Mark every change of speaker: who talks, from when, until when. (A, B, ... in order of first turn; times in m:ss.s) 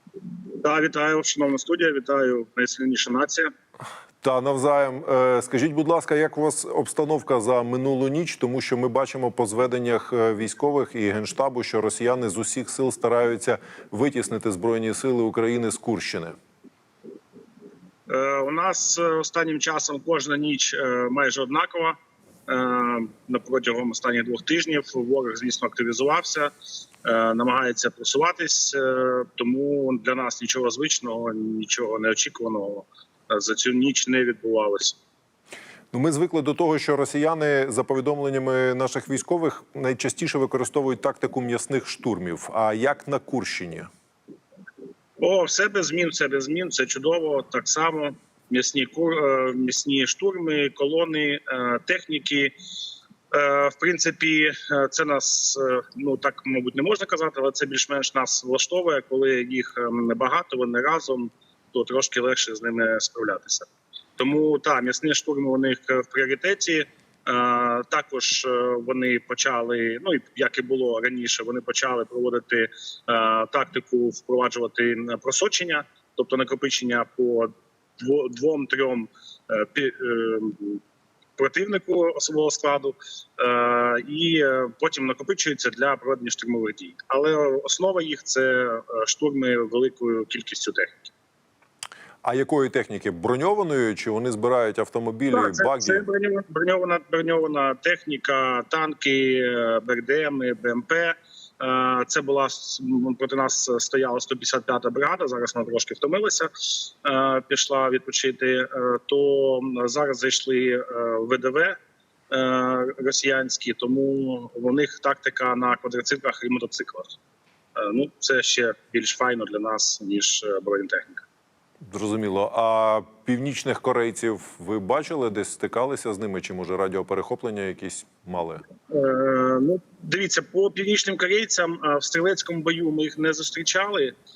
0:00.6-0:03.5 A
0:04.2-0:16.4 B
0:18.1-0:22.0 A
0:22.5-0:26.5 A
0:27.0-0:35.0 A
0:35.9-0:43.9 B
0:45.2-0:52.5 A
0:53.3-1:20.8 A
1:21.4-1:31.1 A
1:32.2-1:36.0 B
1:35.3-1:51.8 A
1:52.3-1:57.2 A
1:57.8-2:01.2 A
2:01.9-2:08.6 B
2:08.9-2:14.1 A